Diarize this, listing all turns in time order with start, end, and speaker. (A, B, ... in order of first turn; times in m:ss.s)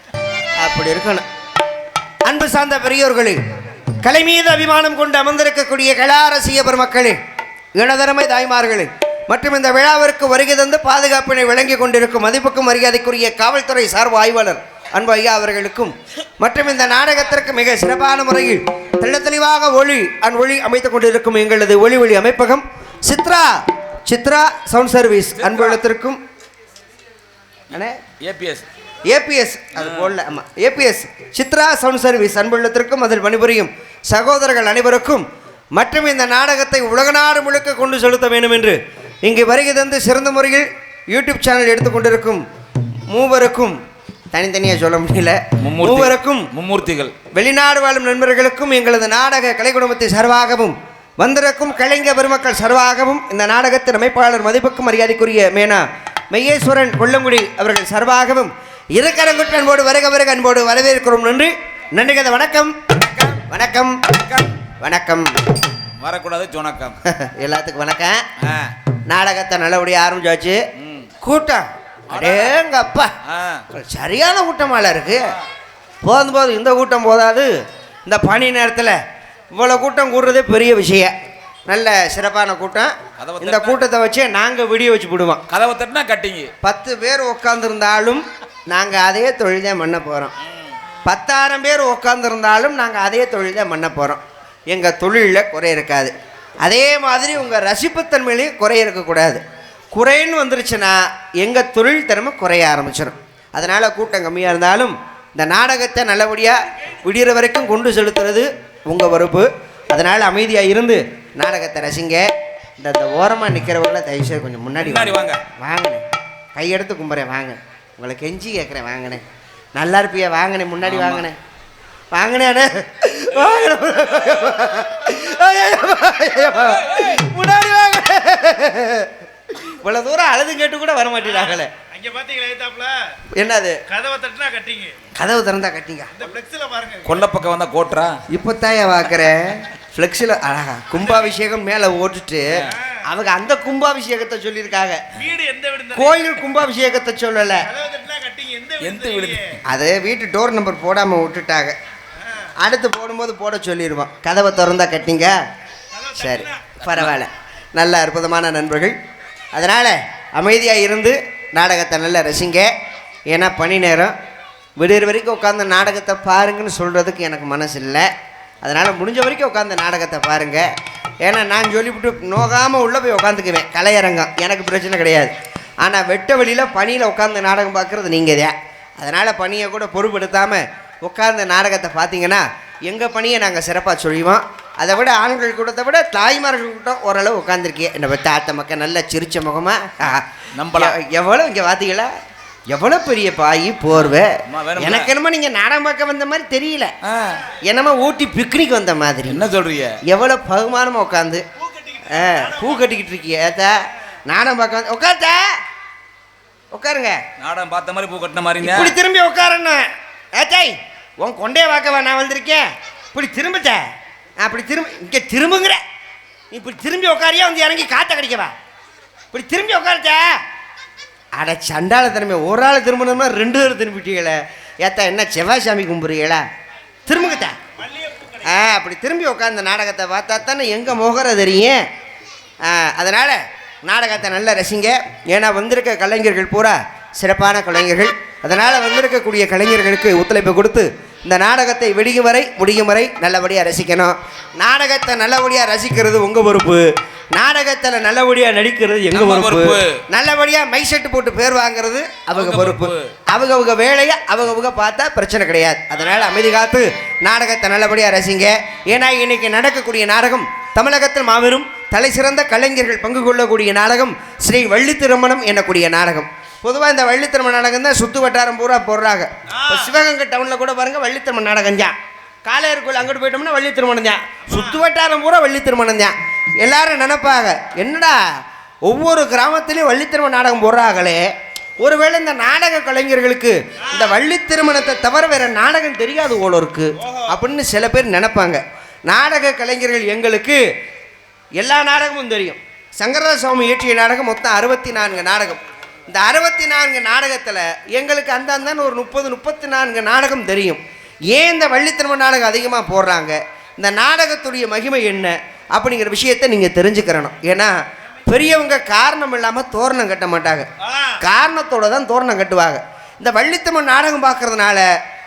0:00.6-0:01.2 A
0:02.2-0:03.4 A
0:04.0-0:07.2 A
0:07.8-0:26.2 A
0:25.4-0:25.8 B
0:27.7-0:28.0 A
0:28.1-0:28.6 B
0:29.0-0:35.2 A
0:29.8-0:30.1 B
0:35.8-0:42.4 A
0:43.1-0:43.8 A
0:44.3-0:46.5 A
0:45.6-0:47.1 B
0:47.3-1:04.2 A
1:04.1-1:04.5 B
1:04.7-1:05.5 A
1:06.0-1:07.0 B
1:07.0-1:08.2 A
1:08.4-1:08.7 B
1:09.1-1:10.6 A
1:10.8-1:11.1 B
1:11.2-1:13.1 A
1:12.1-1:12.5 B
1:13.2-1:13.7 B
1:13.7-1:15.3 A
1:16.0-1:17.6 A
1:18.0-1:19.0 A
1:19.6-1:21.1 A
1:21.7-1:25.4 A
1:23.2-1:23.8 B
1:25.5-1:26.5 B
1:26.6-1:30.3 A
1:30.4-1:30.7 B
1:31.0-1:52.3 A
1:52.8-1:56.0 A
1:54.8-1:55.4 B
1:56.6-1:59.2 A
1:59.8-2:01.4 A
2:00.8-2:01.3 B
2:02.1-2:11.7 A
2:11.4-2:13.1 C
2:13.3-2:13.8 A
2:13.9-2:15.0 C
2:15.2-2:16.1 A
2:16.2-2:17.1 C
2:17.0-2:18.2 B
2:18.3-2:25.1 A
2:25.2-2:26.2 C
2:25.9-2:27.7 A
2:27.7-2:29.5 C
2:28.8-2:29.6 B
2:29.7-2:31.8 A
2:32.6-2:35.4 A
2:35.9-2:36.6 C
2:36.1-2:39.0 A
2:39.5-2:42.7 A
2:43.3-2:44.1 A
2:44.8-2:48.1 A
2:48.6-2:50.7 A
2:51.2-2:55.3 A
2:55.8-3:12.1 A
3:10.6-3:11.0 B
3:12.7-3:16.9 A
3:13.9-3:15.1 B
3:17.0-3:17.4 B
3:17.6-3:19.4 A
3:19.3-3:20.0 B
3:20.0-3:21.4 A
3:21.6-3:22.8 C
3:22.1-3:25.5 A
3:26.7-3:27.2 A
3:27.4-3:29.0 B
3:28.6-3:33.8 A
3:34.4-3:35.8 A
3:36.5-3:38.5 A
3:39.3-3:40.4 A
3:41.4-3:46.4 A
3:47.1-3:47.6 A
3:47.8-3:48.4 C
3:48.4-3:51.8 A
3:52.6-4:31.9 A
4:09.1-4:10.0 B
4:12.3-4:13.1 B
4:29.5-4:29.9 C
4:32.4-4:38.2 A
4:34.5-4:34.8 C
4:38.8-4:41.2 A
4:41.8-4:50.6 A
4:51.6-5:10.7 A
5:10.8-5:11.1 C
5:11.2-5:14.9 A